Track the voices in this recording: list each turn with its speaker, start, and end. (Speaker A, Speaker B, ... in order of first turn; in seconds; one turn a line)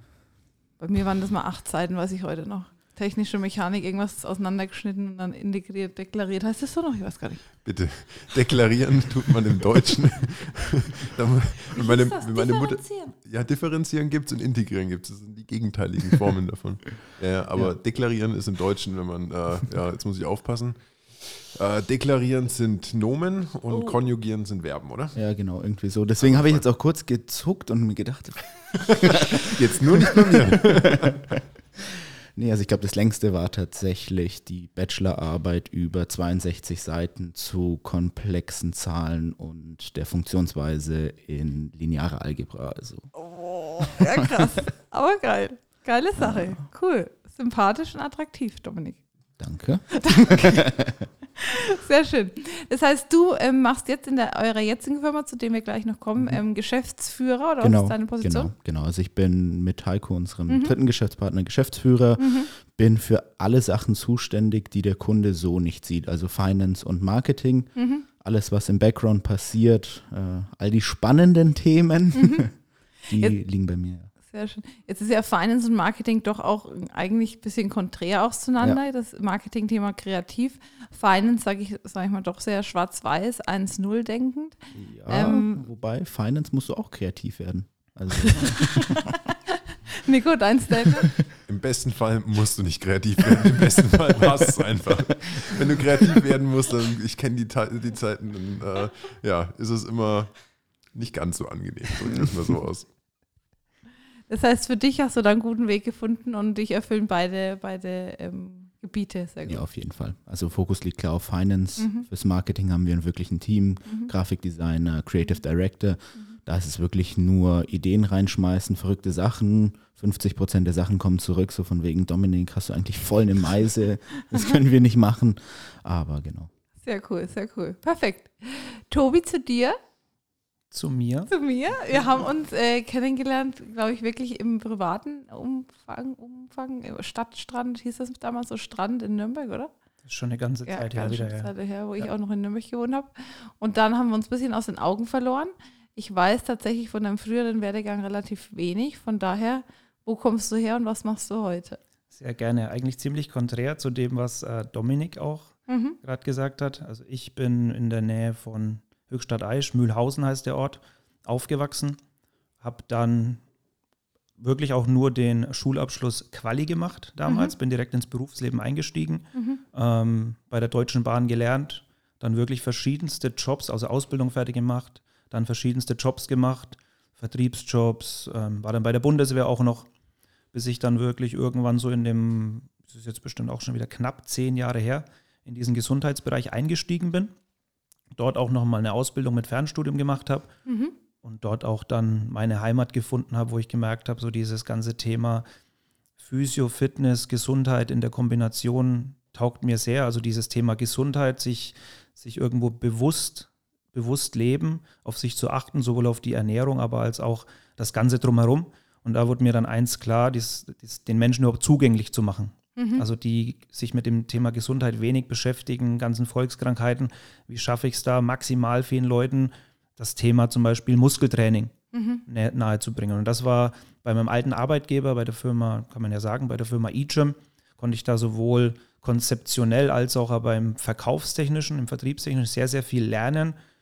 Speaker A: 0.8-7.4
Speaker B: 7.6-25.1
Speaker A: 11.8-13.1
Speaker C: 25.1-43.1
Speaker B: 26.2-26.6
Speaker B: 29.0-31.2
Speaker A: 43.1-49.0
Speaker C: 46.2-46.5
Speaker C: 49.4-51.1
Speaker A: 50.0-50.6
Speaker A: 51.4-58.5
Speaker C: 57.6-72.5
Speaker A: 60.5-60.7
Speaker A: 62.2-62.5
Speaker A: 67.8-68.0
Speaker A: 72.1-72.5
Speaker C: 73.1-74.1
Speaker A: 74.2-84.6
Speaker C: 84.7-89.0
Speaker A: 85.1-85.6
Speaker A: 88.1-89.3
Speaker A: 90.0-91.1
Speaker B: 91.5-102.8
Speaker A: 104.3-109.6
Speaker C: 109.5-126.5
Speaker A: 111.8-112.0
Speaker A: 113.8-114.1
Speaker A: 126.8-129.8
Speaker D: 130.7-131.3
Speaker A: 131.3-139.7
Speaker D: 140.0-142.1
Speaker A: 140.7-151.8
Speaker D: 152.1-162.0
Speaker A: 155.7-156.0
Speaker D: 162.6-163.4
Speaker D: 164.4-179.9
Speaker A: 169.3-169.6
Speaker D: 180.5-187.3
Speaker D: 188.1-190.5
Speaker A: 190.7-190.9
Speaker D: 191.2-195.4
Speaker D: 196.2-221.7
Speaker A: 212.8-213.0
Speaker A: 221.9-222.2
Speaker D: 222.2-233.6